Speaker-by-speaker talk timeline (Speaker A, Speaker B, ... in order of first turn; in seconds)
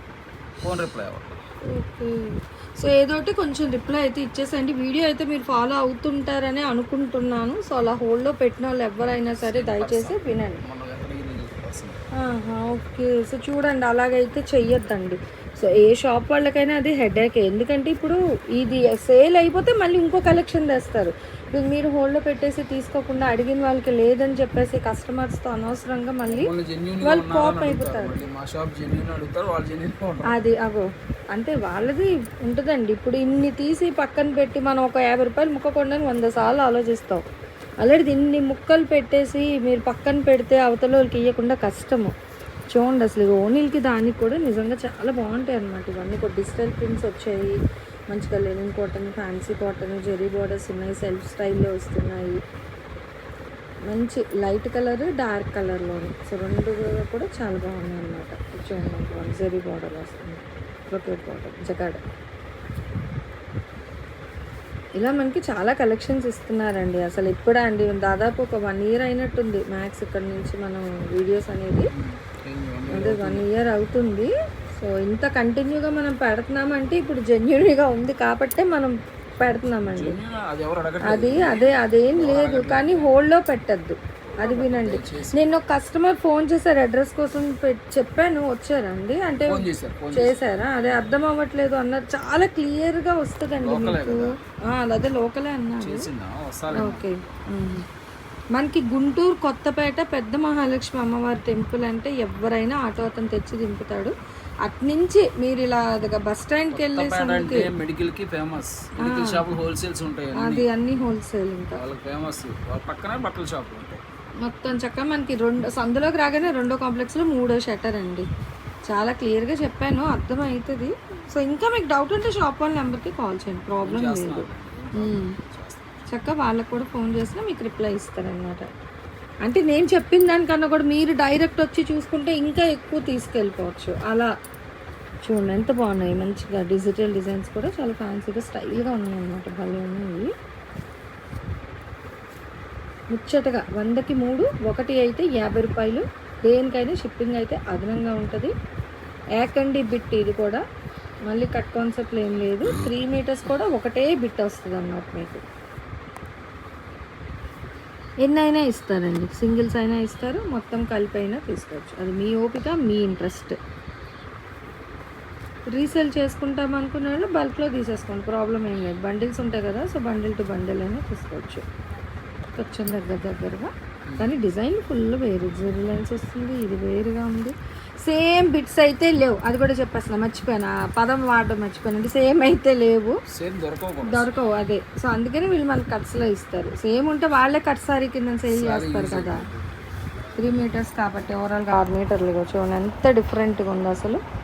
Speaker A: 0.6-1.4, 9.4-12.0, 26.2-30.3, 71.9-73.5, 79.9-83.1, 84.3-85.4, 89.5-90.4, 93.6-94.3, 95.8-97.0, 106.7-110.7, 111.7-114.0, 123.8-126.0, 183.3-184.3, 188.5-189.6
Speaker B: 1.7-10.6, 12.2-26.5, 27.0-28.2, 30.3-37.2, 37.8-42.1, 42.7-47.6, 48.1-52.4, 53.9-62.0, 65.0-71.9, 72.9-80.2, 81.0-96.1, 96.7-97.8, 98.5-104.1, 104.6-107.7, 109.0-109.4, 110.3-111.8, 114.4-118.3, 118.9-125.4, 126.1-128.7, 129.4-134.3, 135.2-140.3, 143.1-148.5, 149.4-150.6, 151.3-155.4, 158.2-163.6, 165.7-171.6, 172.5-183.2, 184.0-189.4, 190.4-194.2